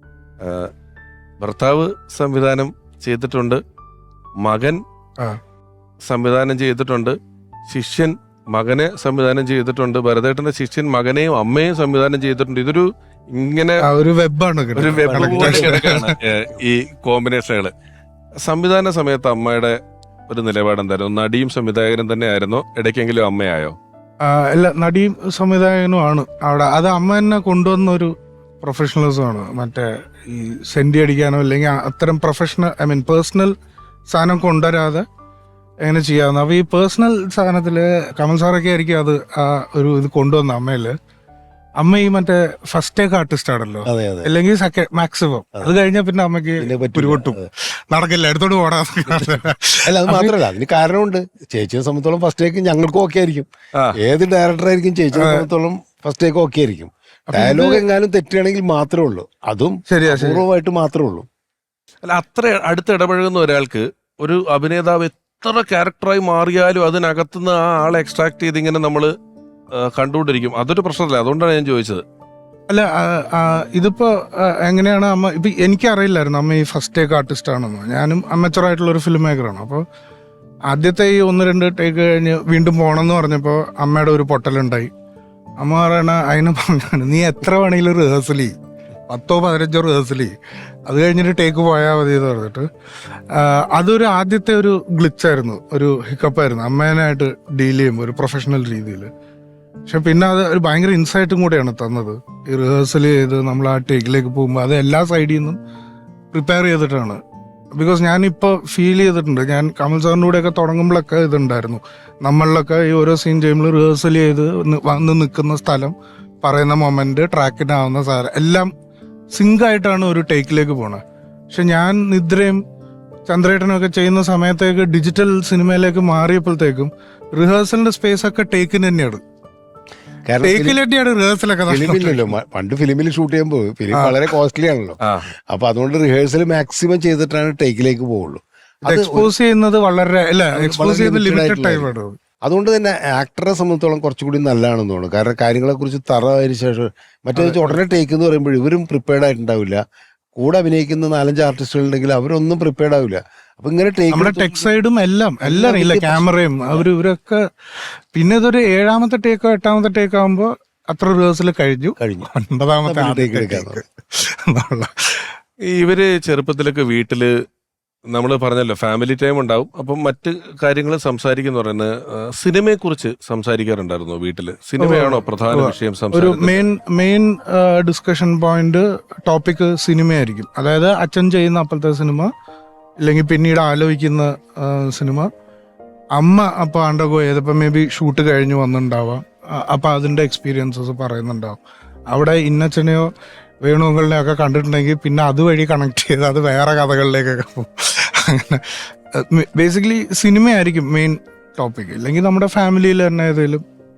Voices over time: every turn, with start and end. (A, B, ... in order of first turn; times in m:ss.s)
0:00.4-0:00.7 A
0:01.4-0:03.6 A
0:04.4-0:04.8 A
0:06.0-0:07.2 A
0:07.7-0:13.8 A
0:13.8-0:16.1 B
0:14.8-0:17.7 A
0:15.0-0:15.8 C
0:18.4-0:19.8 A
0:20.3-0:23.7 A
0:24.2-0:33.5 B
0:34.1-0:35.0 B
0:35.8-0:40.9 B
0:41.8-0:50.3 B
0:43.8-0:44.3 C
0:46.6-0:47.5 C
0:49.1-0:49.3 C
0:49.8-1:01.3 C
0:55.2-0:55.4 B
0:57.3-0:57.8 B
0:59.9-1:00.4 B
1:02.0-1:09.1 A
1:09.8-1:12.0 A
1:12.7-1:19.8 B
1:20.7-1:24.9 B
1:25.6-1:28.6 B
1:29.1-1:30.3 B
1:30.9-1:32.7 B
1:33.3-1:39.1 B
1:39.9-1:45.6 B
1:46.3-1:47.2 B
1:47.8-1:58.7 B
1:59.3-2:02.6 B
2:03.3-2:09.2 B
2:10.2-2:10.8 C
2:10.4-2:12.3 B
2:11.7-2:15.0 C
2:13.9-2:14.3 B
2:15.0-2:15.3 A
2:15.5-2:19.3 C
2:18.8-2:22.2 B
2:20.5-2:21.9 C
2:22.4-2:29.8 C
2:27.4-2:27.8 B
2:30.4-2:34.7 C
2:34.1-2:37.4 B
2:35.4-2:36.8 C
2:38.1-2:45.3 B
2:42.0-2:42.3 C
2:42.8-2:43.8 C
2:45.7-2:47.3 A
2:48.1-2:56.6 A
2:54.8-3:02.3 B
3:03.0-3:05.3 B
3:06.2-3:11.6 B
3:12.1-3:13.1 B
3:13.6-3:23.6 B